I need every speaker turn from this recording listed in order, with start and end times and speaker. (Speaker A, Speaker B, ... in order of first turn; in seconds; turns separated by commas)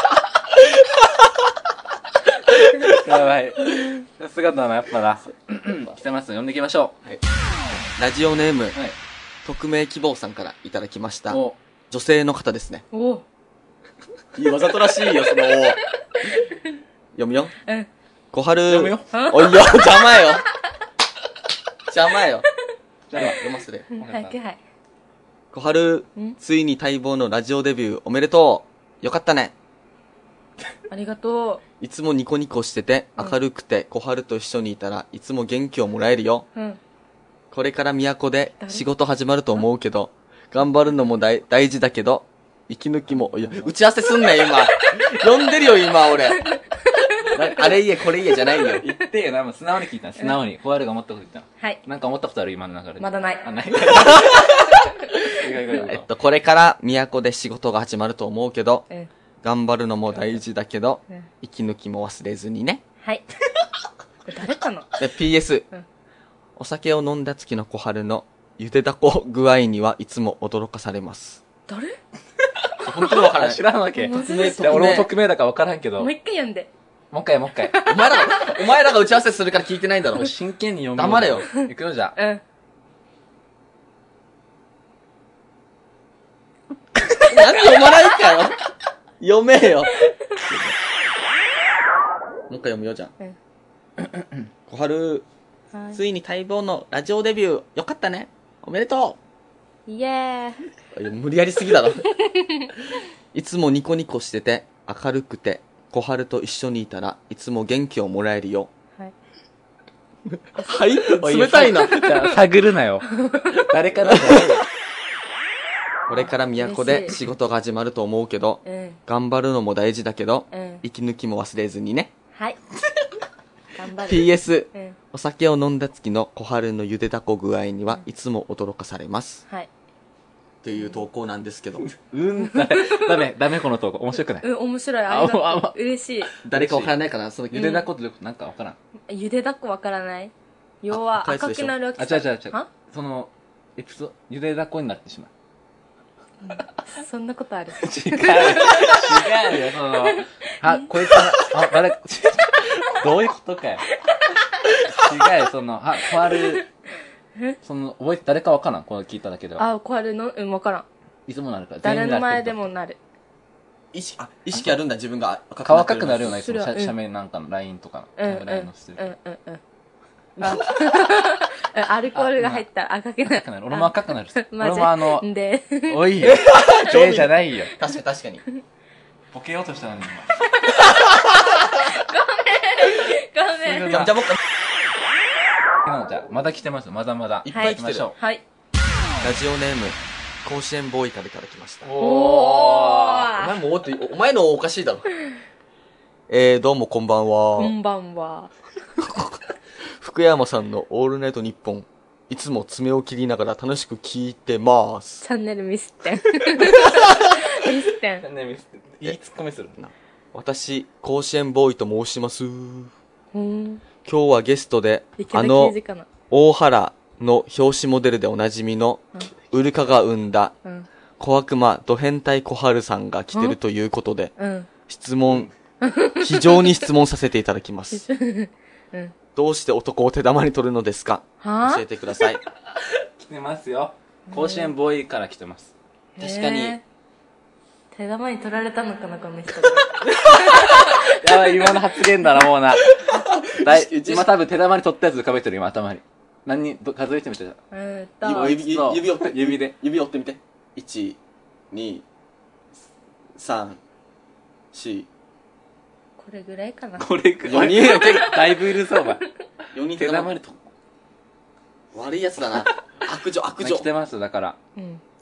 Speaker A: 0.6-1.0, Speaker A: 2.3-6.9, Speaker B: 8.0-8.8, Speaker B: 9.4-11.4, Speaker A: 11.3-11.6, Speaker B: 11.9-12.8, Speaker C: 12.9-13.2, Speaker B: 14.3-15.8, Speaker C: 16.2-16.6, Speaker B: 17.1-17.5, Speaker B: 18.3-20.4, Speaker A: 18.6-19.2, Speaker C: 19.1-19.8, Speaker B: 21.9-22.4, Speaker A: 23.1-24.3, Speaker B: 23.1-23.9, Speaker C: 23.9-24.6, Speaker B: 25.5-29.5, Speaker C: 30.9-31.6, Speaker B: 31.8-36.5, Speaker B: 37.5-46.4, Speaker A: 43.3-43.6, Speaker B: 47.2-48.9, Speaker A: 48.8-56.1, Speaker C: 53.0-53.4, Speaker C: 54.7-55.4, Speaker B: 55.8-58.9, Speaker B: 59.4-62.8, Speaker A: 60.1-60.4, Speaker C: 64.2-64.9, Speaker B: 65.0-65.7, Speaker B: 66.6-71.4, Speaker C: 71.7-72.0, Speaker A: 72.7-76.1, Speaker B: 72.8-73.6, Speaker C: 73.9-75.0, Speaker B: 74.1-75.1, Speaker C: 76.0-76.7, Speaker A: 77.1-77.8, Speaker C: 77.7-78.6, Speaker B: 77.8-80.3, Speaker A: 80.2-82.2, Speaker B: 80.9-81.5, Speaker C: 81.5-82.4, Speaker B: 87.3-88.6, Speaker B: 89.2-90.7, Speaker B: 92.5-93.1, Speaker B: 94.7-95.2, Speaker B: 95.9-99.2, Speaker C: 99.9-100.7, Speaker B: 100.9-102.1, Speaker C: 102.2-102.7, Speaker B: 103.3-108.7, Speaker B: 110.3-112.3, Speaker A: 111.0-114.7, Speaker C: 111.8-112.3, Speaker C: 113.1-113.6, Speaker B: 114.0-114.6, Speaker B: 116.1-122.1, Speaker C: 116.6-117.2, Speaker C: 118.6-119.0, Speaker C: 120.5-120.8, Speaker C: 123.7-125.0, Speaker B: 124.0-129.4, Speaker B: 130.6-131.8, Speaker A: 131.8-134.5, Speaker C: 132.5-133.2, Speaker C: 134.4-136.3, Speaker A: 135.1-135.8, Speaker A: 136.3-136.9, Speaker B: 136.4-137.8, Speaker A: 137.5-138.8, Speaker C: 137.5-137.9, Speaker C: 139.1-142.7, Speaker B: 140.9-141.7, Speaker A: 142.0-145.3, Speaker C: 146.4-149.3, Speaker A: 147.8-153.9, Speaker C: 150.1-151.1, Speaker A: 154.7-156.7, Speaker A: 157.6-159.6, Speaker C: 159.6-160.8, Speaker A: 161.3-162.7, Speaker C: 161.8-163.0, Speaker B: 163.9-166.5, Speaker A: 165.6-169.1, Speaker C: 166.3-166.9, Speaker C: 168.2-169.6, Speaker C: 170.4-176.2, Speaker A: 172.1-172.7, Speaker A: 173.2-175.2, Speaker A: 175.9-177.7, Speaker B: 176.2-178.4, Speaker A: 179.3-180.8, Speaker C: 180.5-184.1, Speaker A: 183.6-184.2, Speaker B: 183.9-184.4, Speaker A: 185.8-188.2, Speaker B: 187.4-188.1, Speaker C: 187.5-188.4, Speaker B: 189.2-191.9, Speaker A: 191.8-193.3, Speaker C: 192.0-193.5, Speaker B: 193.3-195.1, Speaker B: 196.3-197.8, Speaker C: 197.6-198.5, Speaker B: 199.0-205.2, Speaker C: 205.2-208.2, Speaker A: 208.2-209.8, Speaker B: 209.8-212.9, Speaker C: 213.3-213.8, Speaker B: 214.0-215.8, Speaker C: 215.2-216.1, Speaker B: 216.3-220.5, Speaker B: 221.2-224.3, Speaker C: 224.4-224.7, Speaker B: 224.9-225.5, Speaker C: 225.8-226.7, Speaker B: 226.2-228.0, Speaker C: 227.9-229.1, Speaker B: 229.3-232.4, Speaker C: 231.4-231.8, Speaker A: 232.7-235.7, Speaker C: 234.3-234.7, Speaker C: 236.2-236.8, Speaker B: 236.2-236.8, Speaker C: 237.9-241.2, Speaker A: 240.3-247.6, Speaker B: 243.0-244.3, Speaker C: 247.7-248.5, Speaker B: 248.2-251.2, Speaker A: 248.2-249.7, Speaker B: 251.7-252.0, Speaker B: 253.3-253.8, Speaker B: 254.7-255.1, Speaker C: 256.2-257.1, Speaker A: 257.0-259.2, Speaker B: 257.4-258.6, Speaker B: 259.7-260.3, Speaker A: 259.9-260.6, Speaker B: 261.9-263.9, Speaker A: 263.6-264.6, Speaker C: 264.8-265.0